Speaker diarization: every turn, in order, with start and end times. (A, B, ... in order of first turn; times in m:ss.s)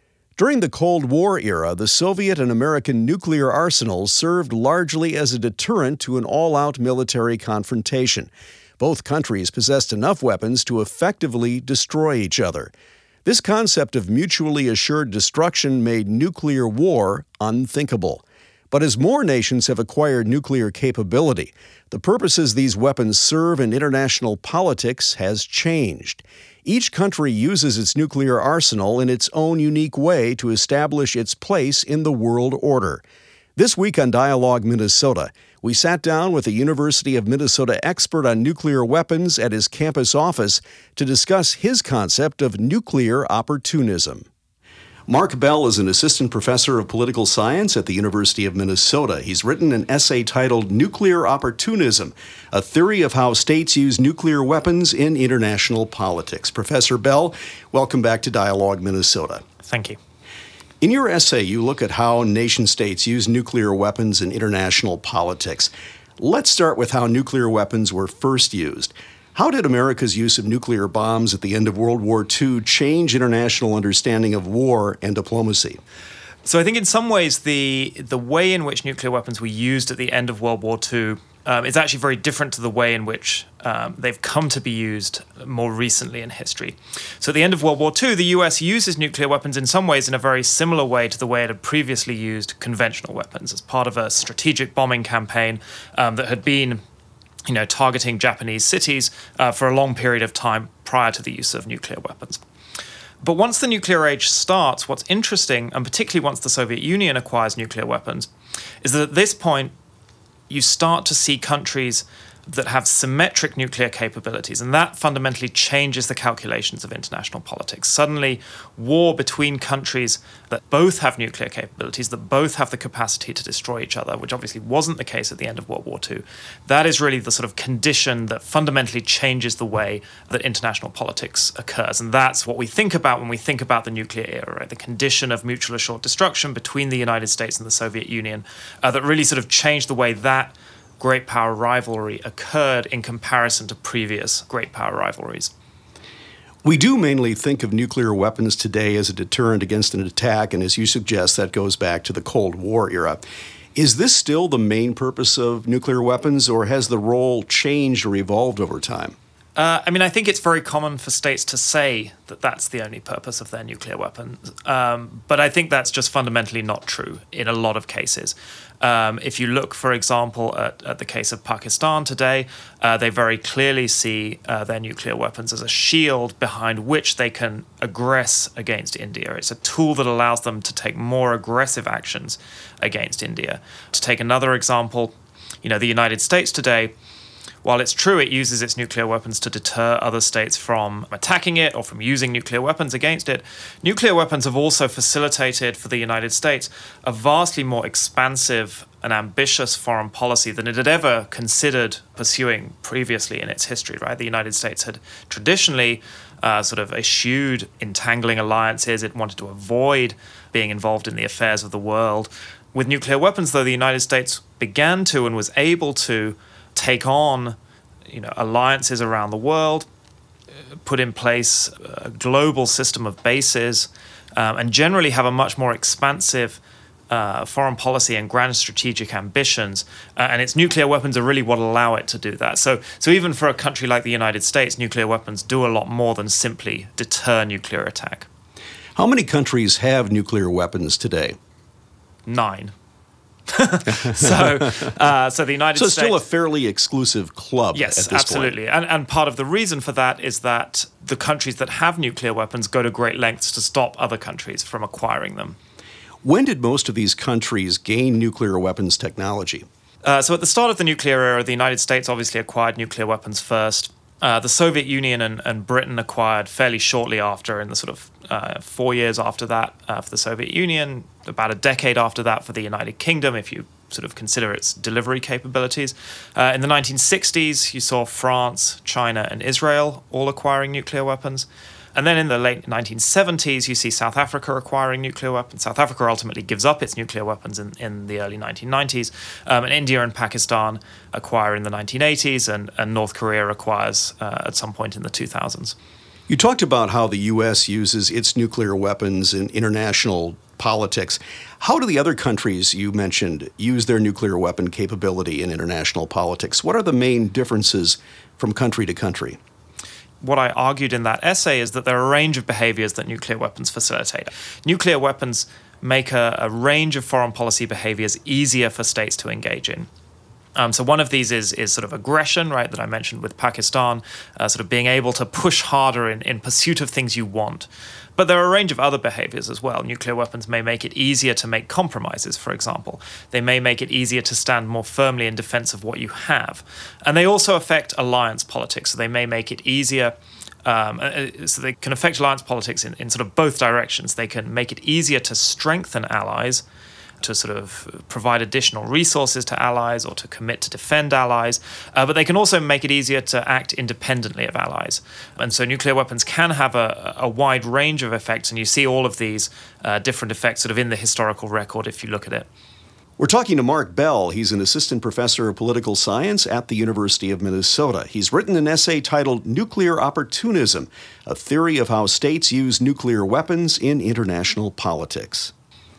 0:00.4-0:12.7 A
0:13.2-0:33.0 A
0:33.6-0:44.3 A
0:45.1-0:59.4 A
0:59.6-1:00.0 B
1:00.8-1:15.8 A
1:16.4-1:36.8 B
1:37.4-1:42.4 B
1:43.2-1:48.3 B
1:48.8-1:49.7 B
1:50.5-2:25.5 B
2:26.6-2:33.2 A
2:33.7-2:39.2 A
2:39.6-3:06.9 B
3:07.6-3:37.6 B
3:38.1-3:39.9 B
3:40.8-3:58.3 B
3:59.0-4:01.4 A
4:02.2-4:02.7 B
4:03.5-4:06.2 B
4:05.8-4:08.5 A
4:07.7-4:15.6 B
4:16.2-4:19.6 A
4:20.0-4:55.8 B
4:56.3-5:09.4 A
5:10.2-5:19.9 B
5:20.6-5:46.6 B
5:47.2-6:02.5 B
6:03.2-6:15.5 A